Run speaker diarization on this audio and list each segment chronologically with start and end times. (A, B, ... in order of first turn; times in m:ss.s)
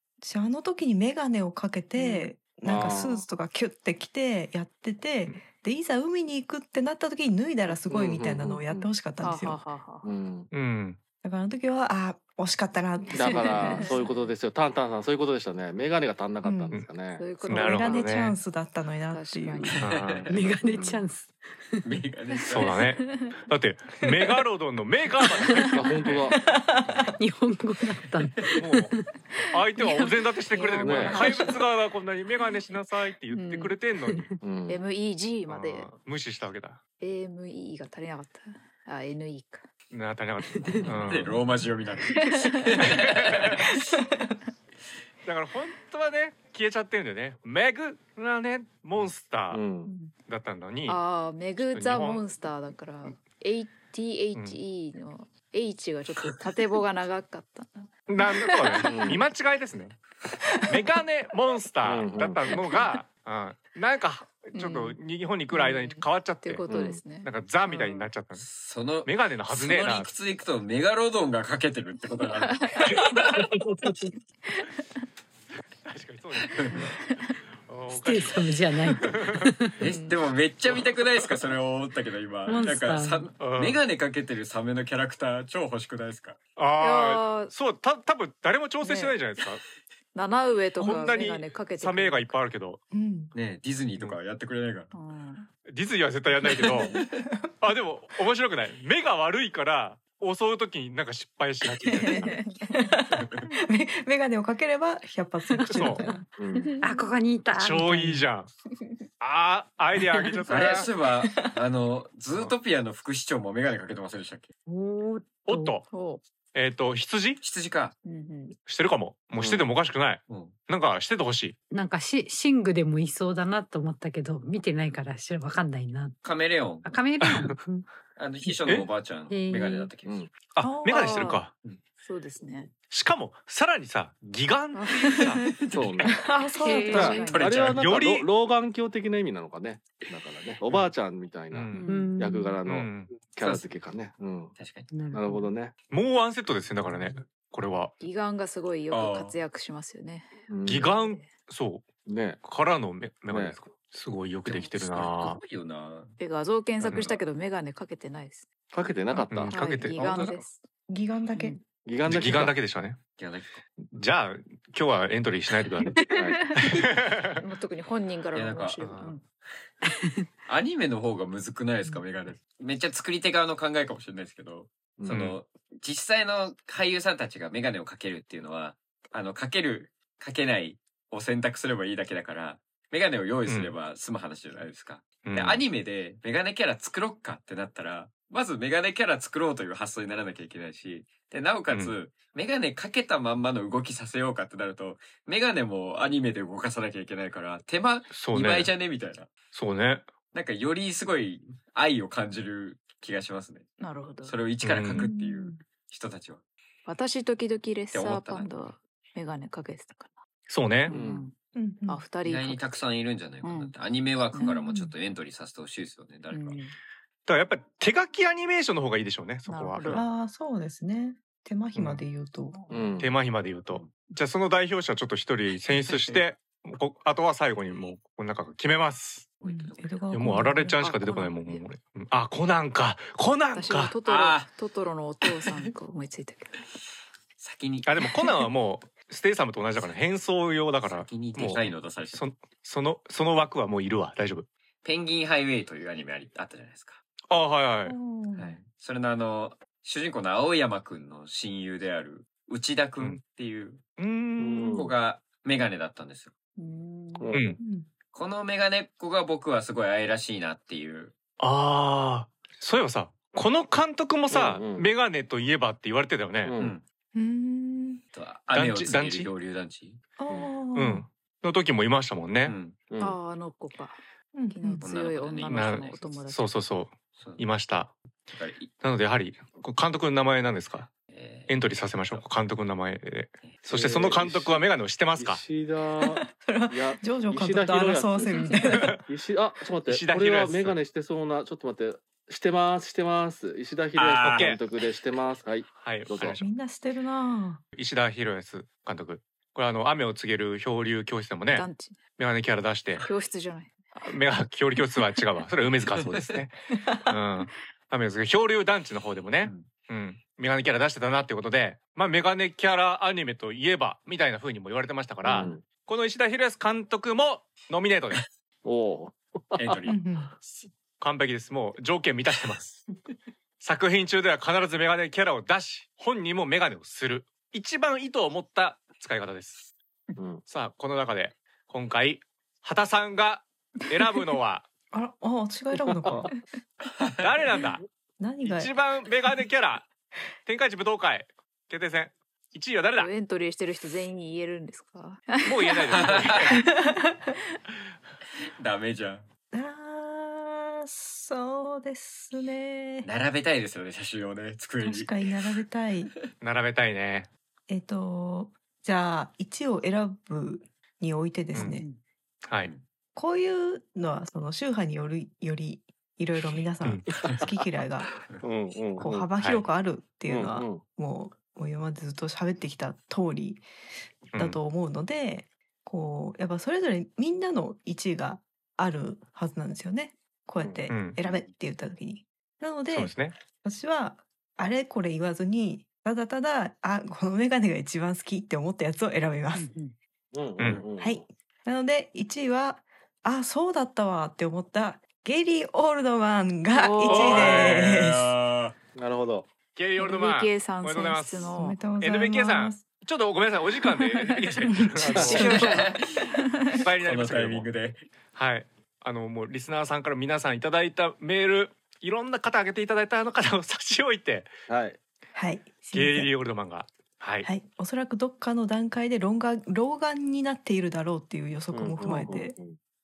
0:00.2-0:09.6 A
0:02.0-0:02.3 B
0:02.6-0:03.3 C
0:07.9-0:08.9 C
0:09.2-0:10.1 B
0:10.0-0:10.5 C
0:10.5-0:11.0 D
0:11.2-0:14.0 A
0:13.1-0:17.3 C
0:13.2-0:14.1 B
0:16.4-0:16.8 A
0:17.2-0:18.2 B
0:17.4-0:18.4 D
0:17.5-0:19.7 A
0:19.1-0:19.9 B
0:19.7-0:20.3 E
0:19.8-0:20.3 D
0:20.3-0:21.9 F
0:20.3-0:21.0 C
0:21.8-0:22.8 E
0:22.4-0:23.4 B
0:22.5-0:26.2 D
0:25.8-0:26.4 C
0:26.4-0:26.9 A
0:27.2-0:29.1 F
0:28.6-0:29.0 D
0:29.3-0:31.7 B
0:29.5-0:34.3 D
0:30.8-0:31.3 C
0:33.3-0:33.8 B
0:34.1-0:34.4 F
0:34.4-0:34.8 C
0:34.7-0:35.9 B
0:35.5-0:36.8 D
0:37.0-0:39.7 B
0:39.9-0:41.4 D
0:40.6-0:41.0 F
0:41.1-0:43.8 E
0:42.1-0:42.8 B
0:42.9-0:43.4 D
0:45.3-0:49.6 D
0:49.5-0:49.9 C
0:50.3-0:51.0 D
0:50.9-0:59.2 B
0:51.7-0:52.2 D
0:58.1-1:00.0 D
0:58.8-0:59.2 C
1:00.6-1:08.5 D
1:01.8-1:02.6 C
1:04.5-1:05.0 B
1:05.5-1:08.1 B
1:06.7-1:07.0 C
1:08.3-1:13.4 E
1:09.0-1:10.1 D
1:12.4-1:13.0 B
1:13.5-1:14.0 C
1:14.5-1:14.8 B
1:15.9-1:16.9 D
1:16.5-1:16.8 E
1:16.7-1:17.4 B
1:17.6-1:19.5 D
1:17.9-1:19.8 F
1:19.8-1:26.4 E
1:19.8-1:20.2 B
1:20.7-1:21.3 D
1:22.5-1:23.3 F
1:23.4-1:23.8 D
1:26.6-1:29.6 D
1:26.8-1:27.5 B
1:28.8-1:29.2 B
1:30.1-1:32.4 B
1:30.8-1:32.8 D
1:32.9-1:33.3 A
1:33.3-1:34.9 E
1:34.9-1:35.5 B
1:35.7-1:37.0 D
1:36.7-1:37.0 B
1:37.6-1:42.4 D
1:41.9-1:42.8 B
1:41.9-1:46.2 A
1:43.1-1:43.5 E
1:45.5-1:46.1 F
1:45.7-1:46.0 D
1:46.4-1:46.8 C
1:46.6-1:47.1 B
1:46.8-1:48.2 F
1:47.5-1:48.5 D
1:49.2-1:50.9 D
1:50.5-1:54.5 E
1:54.7-1:55.8 F
1:55.5-1:55.8 D
1:55.9-1:56.2 B
1:56.5-1:57.4 D
1:57.4-1:58.0 E
1:58.0-1:58.6 B
1:58.6-2:01.6 D
1:59.4-1:59.6 E
2:00.3-2:00.6 E
2:01.7-2:06.2 F
2:06.2-2:07.0 E
2:06.8-2:07.9 F
2:07.2-2:07.6 D
2:08.2-2:10.2 E
2:09.3-2:09.9 F
2:10.0-2:10.3 C
2:10.5-2:11.5 D
2:10.6-2:11.4 A
2:10.8-2:11.4 B
2:12.0-2:12.7 B
2:12.9-2:15.4 D
2:14.7-2:17.7 B
2:15.7-2:16.2 C
2:16.2-2:17.3 A
2:16.9-2:24.6 C
2:17.2-2:17.8 E
2:17.7-2:18.3 D
2:21.5-2:21.9 D
2:21.7-2:22.1 B
2:21.9-2:22.6 F
2:22.6-2:23.1 D
2:23.4-2:23.8 E
2:24.6-2:24.9 E
2:24.9-2:25.5 F
2:25.1-2:25.7 C
2:25.9-2:27.9 D
2:28.0-2:31.3 B
2:28.9-2:29.4 E
2:30.5-2:30.9 C
2:30.7-2:31.9 D
2:32.1-2:32.4 C
2:32.4-2:35.4 D
2:33.3-2:33.6 C
2:34.4-2:36.2 E
2:36.2-2:38.5 B
2:36.8-2:37.1 E
2:36.9-2:37.2 D
2:38.7-2:39.6 C
2:39.1-2:40.3 D
2:39.5-2:40.6 B
2:39.9-2:40.5 E
2:40.9-2:41.6 A
2:41.4-2:41.6 B
2:41.8-2:42.6 C
2:42.0-2:43.0 D
2:43.2-2:43.6 E
2:43.9-2:46.0 D
2:46.0-2:49.2 B
2:46.1-2:46.5 C
2:46.7-2:47.4 D
2:48.3-2:48.8 E
2:48.8-2:49.1 D
2:49.8-2:50.2 F
2:50.5-3:19.3 E
2:55.0-2:55.4 C
3:03.5-3:03.7 D
3:05.2-3:05.6 D
3:18.1-3:18.7 D
3:19.5-3:20.1 D
3:20.3-3:23.7 E
3:23.8-3:24.4 B
3:24.2-3:26.4 E
3:24.6-3:25.1 D
3:25.0-3:25.6 A
3:26.9-3:30.2 B
3:27.9-3:28.6 E
3:30.5-3:31.0 D
3:30.8-3:31.4 B
3:30.9-3:31.3 C
3:31.6-3:32.0 A
3:31.9-3:32.7 B
3:32.2-3:36.6 E
3:33.4-3:33.7 B
3:34.3-3:34.6 B
3:34.4-3:34.9 A
3:36.3-3:36.8 B
3:37.3-3:40.0 D
3:39.5-3:40.1 B
3:39.9-3:42.6 A
3:41.8-3:42.0 D
3:42.5-3:43.0 B
3:42.7-3:43.1 C
3:43.0-3:49.3 D
3:45.9-3:46.2 E
3:49.4-3:50.2 E
3:49.4-3:50.8 A
3:50.1-3:54.0 D
3:50.7-3:51.7 B
3:53.5-3:56.6 B
3:54.1-3:54.5 E
3:57.4-3:58.1 E
3:57.8-4:04.5 D
4:00.8-4:02.2 E
4:04.8-4:07.0 E
4:07.3-4:08.0 D
4:07.8-4:08.6 A
4:08.4-4:13.8 E
4:14.0-4:14.9 D
4:14.4-4:14.9 C
4:14.7-4:16.3 E
4:16.6-4:17.4 B
4:17.2-4:17.5 C
4:17.3-4:17.6 D
4:17.6-4:17.9 A
4:18.1-4:21.1 E
4:21.4-4:26.6 D
4:24.3-4:24.9 C
4:26.4-4:26.8 C
4:27.1-4:28.0 A
4:28.1-4:30.0 E
4:28.5-4:29.3 D
4:30.2-4:31.1 A
4:30.8-4:32.6 D
4:32.4-4:32.8 E
4:32.9-4:33.2 C
4:33.0-4:36.5 B
4:34.3-4:34.9 A
4:34.8-4:36.1 E
4:35.5-4:38.0 D
4:37.2-4:37.4 E
4:38.3-4:38.7 E
4:38.8-4:40.9 D
4:41.1-4:41.6 E
4:41.5-4:45.4 D
4:43.7-4:44.6 C
4:45.2-4:56.5 C
4:46.1-4:49.0 A
4:48.2-4:48.6 B
4:48.7-4:49.0 D
4:49.9-4:50.8 D
4:54.0-4:54.5 E
4:54.2-4:54.6 D
4:55.8-4:56.4 D
4:56.4-4:57.6 A
4:57.8-5:03.0 D
5:01.5-5:02.0 B
5:03.0-5:03.8 B
5:04.0-5:18.2 D
5:09.4-5:09.7 E
5:15.2-5:15.6 C
5:18.6-5:19.9 C
5:19.6-5:20.0 E
5:19.9-5:20.3 A
5:20.5-5:22.9 D
5:23.6-5:29.7 D
5:30.2-5:30.4 C
5:30.5-5:34.7 D
5:34.9-5:36.3 A
5:37.2-5:37.8 D
5:38.2-5:38.7 A
5:38.4-5:39.9 D
5:40.5-5:43.1 D
5:43.0-5:46.1 B
5:45.4-5:46.5 D
5:46.0-5:46.6 E
5:46.5-5:47.3 A
5:48.4-5:49.3 E
5:49.5-5:53.1 A
5:53.0-5:55.2 E
5:54.8-5:56.1 A
5:56.4-5:57.3 D
5:57.7-6:01.8 A
6:01.5-6:01.8 D
6:01.6-6:02.0 B
6:03.2-6:08.1 A
6:08.4-6:09.3 C
6:09.0-6:13.6 A
6:09.4-6:09.6 D
6:10.3-6:10.8 C
6:14.3-6:14.6 D
6:14.4-6:29.7 A
6:20.6-6:20.9 C
6:20.9-6:21.2 D
6:21.2-6:21.5 E
6:22.9-6:23.4 D
6:29.5-6:30.0 F
6:30.3-6:31.2 C
6:30.6-6:30.9 D
6:31.0-6:38.3 A
6:36.7-6:37.5 B
6:37.1-6:37.9 D
6:37.1-6:38.8 E
6:39.0-6:39.5 C
6:39.7-6:45.8 D
6:40.0-6:41.8 B
6:41.6-6:42.8 A
6:44.0-6:44.5 B
6:44.7-6:45.9 A
6:45.1-6:46.8 B
6:45.4-6:46.1 E
6:46.7-6:47.7 D
6:47.0-6:48.1 E
6:48.3-6:54.5 D
6:54.7-6:55.0 C
6:55.4-6:56.3 A
6:55.9-6:57.5 D
6:57.4-7:02.6 A
7:01.7-7:02.8 C